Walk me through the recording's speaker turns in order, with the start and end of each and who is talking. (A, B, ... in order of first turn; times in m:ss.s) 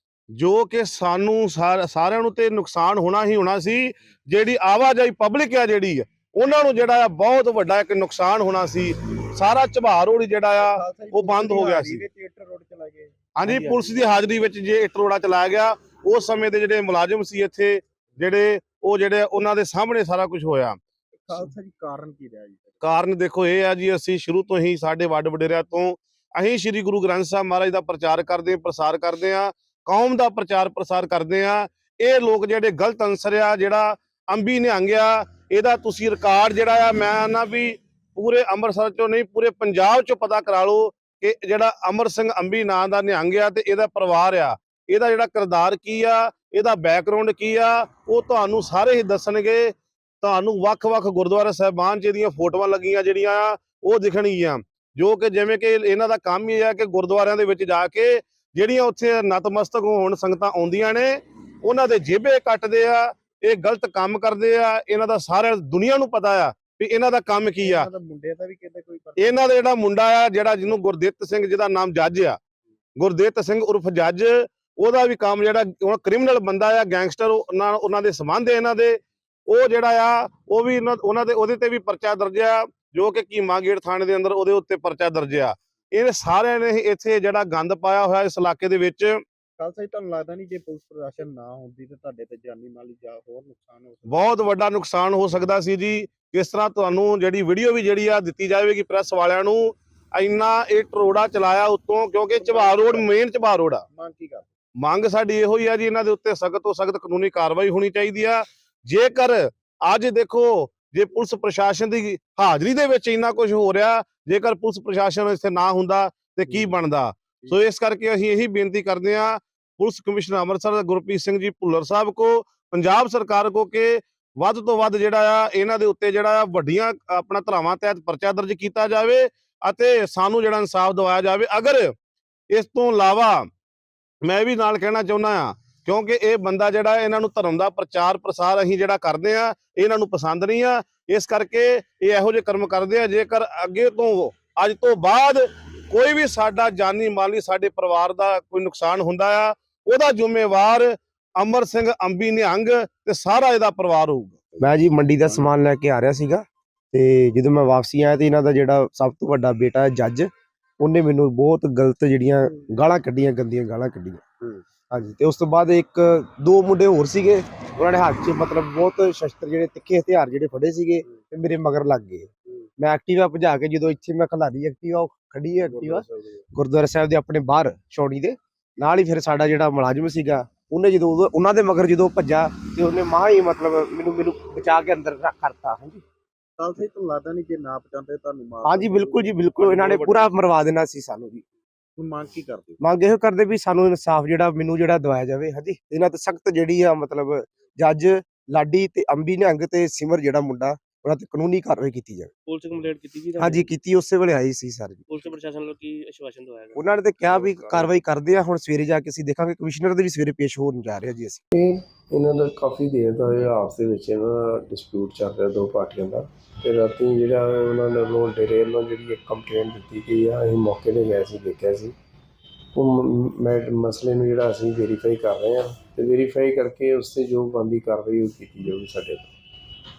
0:00.4-0:12.0 A
0:10.6-0:13.8 B
0:13.4-0:20.8 A
0:13.4-0:13.9 C
0:21.3-0:22.7 B
0:22.8-1:07.9 A
1:07.6-1:09.5 B
1:09.2-1:12.4 A
1:13.0-1:29.2 A
1:29.6-1:34.2 B
1:34.1-1:43.8 A
1:42.4-1:43.1 B
1:43.9-1:44.4 B
1:44.8-2:11.9 A
2:12.5-2:13.5 A
2:14.2-2:34.4 A
2:34.6-2:40.3 D
2:40.8-3:06.0 D
2:55.7-2:56.3 B
3:06.6-3:10.3 B
3:08.6-3:11.4 D
3:12.0-3:12.8 B
3:12.8-3:22.3 D
3:22.5-3:23.7 C
3:23.4-3:25.3 D
3:25.1-3:27.5 C
3:26.8-3:31.4 D
3:27.5-3:28.0 E
3:31.5-3:42.0 E
3:42.7-3:49.3 E